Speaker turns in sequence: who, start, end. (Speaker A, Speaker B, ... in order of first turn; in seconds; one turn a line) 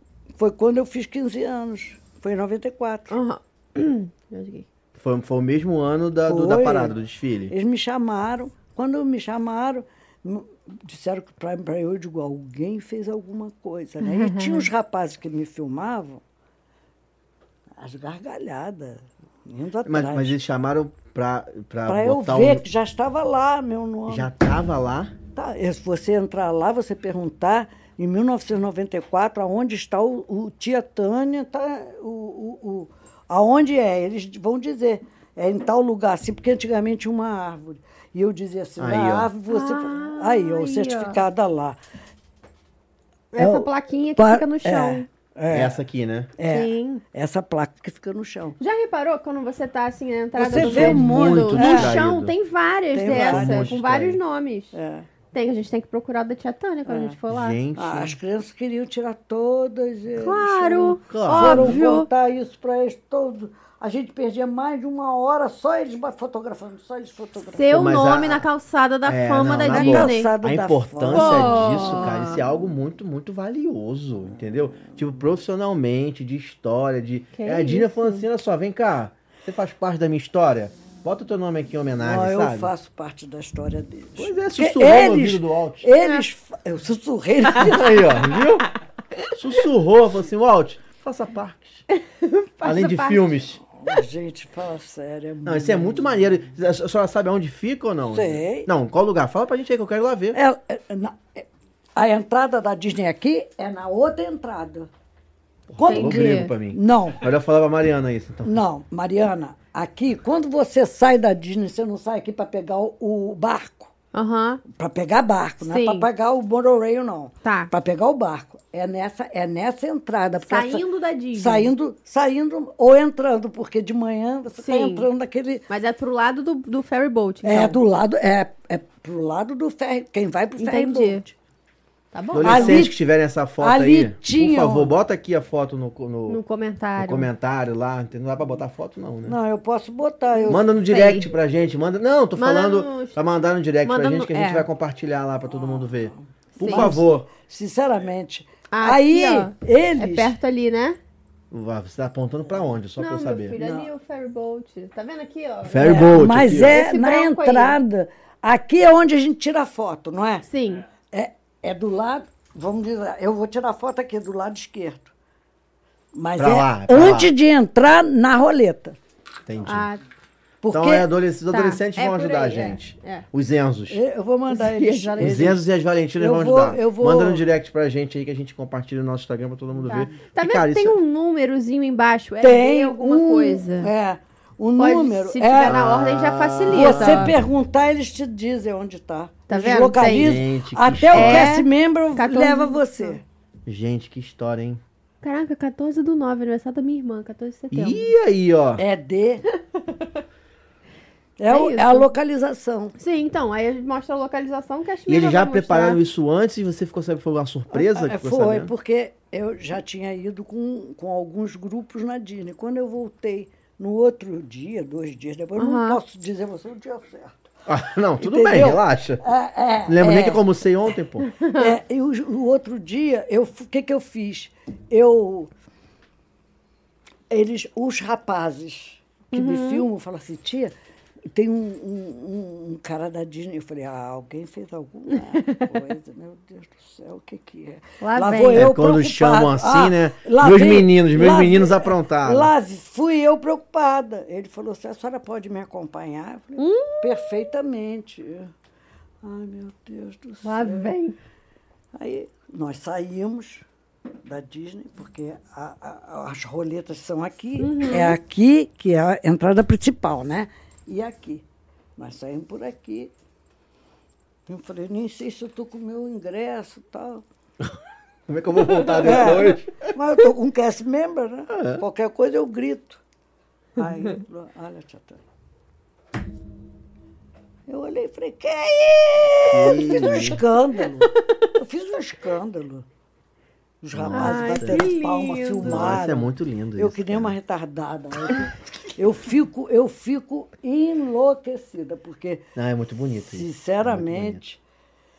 Speaker A: 0.4-3.2
Speaker B: 3.1-4.6
Speaker C: 5.0-7.5
Speaker A: 6.2-7.0
Speaker A: 7.5-16.2
Speaker B: 14.0-14.7
Speaker A: 17.8-20.4
Speaker C: 19.8-22.6
Speaker A: 21.9-24.3
Speaker C: 24.1-25.1
Speaker A: 25.3-41.8
Speaker C: 38.8-39.3
Speaker B: 39.5-41.2
Speaker B: 43.3-45.0
Speaker A: 43.4-45.8
Speaker C: 45.5-46.3
Speaker A: 46.4-48.6
Speaker B: 46.5-47.0
Speaker B: 48.6-54.7
Speaker A: 50.4-51.9
Speaker C: 50.5-52.3
Speaker A: 52.9-53.8
Speaker C: 53.0-54.2
Speaker A: 54.7-55.1
Speaker B: 55.3-57.6
Speaker A: 56.9-57.1
Speaker C: 57.3-58.1
Speaker A: 57.8-67.7
Speaker B: 60.2-62.1
Speaker C: 61.1-61.8
Speaker B: 67.5-70.3
Speaker C: 67.7-68.4
Speaker C: 69.0-82.7
Speaker A: 69.7-72.1
Speaker B: 71.1-72.4
Speaker B: 77.3-78.2
Speaker A: 82.0-88.2
Speaker C: 84.2-85.9
Speaker B: 86.0-86.2
Speaker C: 87.5-88.7
Speaker C: 89.3-91.8
Speaker B: 91.9-93.3
Speaker C: 92.6-93.6
Speaker A: 93.7-96.3
Speaker C: 95.4-100.4
Speaker A: 98.1-98.7
Speaker A: 100.3-104.9
Speaker C: 105.7-108.6
Speaker A: 105.8-107.2
Speaker B: 105.8-106.5
Speaker A: 108.4-113.9
Speaker B: 114.1-114.6
Speaker A: 114.7-125.6
Speaker B: 115.6-116.1
Speaker B: 117.4-117.7
Speaker B: 120.4-121.7
Speaker B: 124.6-125.1
Speaker B: 125.7-127.8
Speaker A: 127.4-131.3
Speaker B: 130.6-131.2
Speaker B: 132.1-132.9
Speaker C: 132.3-136.4
Speaker A: 132.4-133.0
Speaker A: 133.6-134.9
Speaker B: 136.3-137.3
Speaker C: 137.0-139.4
Speaker A: 139.2-140.7
Speaker B: 140.5-141.3
Speaker C: 140.5-147.3
Speaker B: 142.3-143.2
Speaker B: 143.8-144.7
Speaker A: 145.5-150.3
Speaker B: 146.6-146.9
Speaker B: 148.7-151.0
Speaker C: 151.5-153.6
Speaker B: 153.0-157.8
Speaker A: 153.6-153.9
Speaker C: 155.6-156.8
Speaker A: 155.8-160.4
Speaker B: 160.5-160.8
Speaker A: 161.1-165.1
Speaker A: 166.1-169.0
Speaker C: 166.4-167.3
Speaker C: 169.4-169.9
Speaker B: 169.6-170.0
Speaker A: 170.6-171.1
Speaker C: 170.7-174.0
Speaker B: 171.5-173.2
Speaker A: 173.9-175.6
Speaker B: 174.5-175.5
Speaker C: 175.2-180.9
Speaker A: 176.2-177.4
Speaker A: 179.8-180.2
Speaker B: 179.9-183.9
Speaker A: 182.4-185.8
Speaker B: 184.8-187.3
Speaker C: 185.6-187.3
Speaker A: 186.7-193.2
Speaker B: 189.5-190.3
Speaker C: 190.0-191.5
Speaker B: 191.1-193.2
Speaker C: 193.7-194.8
Speaker B: 195.2-198.1
Speaker C: 197.7-198.8
Speaker A: 198.8-199.4
Speaker A: 201.4-202.9
Speaker B: 201.5-202.1
Speaker B: 203.0-206.0
Speaker C: 205.1-208.7
Speaker A: 207.7-217.5
Speaker B: 215.6-216.0
Speaker C: 217.7-219.2
Speaker A: 218.2-220.4
Speaker C: 219.9-221.3
Speaker B: 221.3-221.7
Speaker A: 221.5-225.5
Speaker A: 227.3-230.7
Speaker B: 229.3-229.8
Speaker A: 231.3-248.5
Speaker B: 235.4-235.7
Speaker B: 238.0-238.7
Speaker C: 238.5-242.5
Speaker B: 246.6-247.3
Speaker A: 249.2-250.9
Speaker B: 250.4-251.2
Speaker A: 251.9-253.7
Speaker A: 254.2-261.4
Speaker B: 257.6-258.2
Speaker A: 262.0-263.1
Speaker A: 264.5-267.2
Speaker C: 268.3-269.9
Speaker A: 268.8-273.0
Speaker C: 271.5-271.8
Speaker A: 273.8-275.2
Speaker A: 277.7-282.8
Speaker C: 279.5-280.4
Speaker A: 283.8-292.4
Speaker C: 283.9-284.9
Speaker B: 284.1-286.0
Speaker C: 285.6-287.3
Speaker C: 292.6-294.4
Speaker A: 293.2-294.6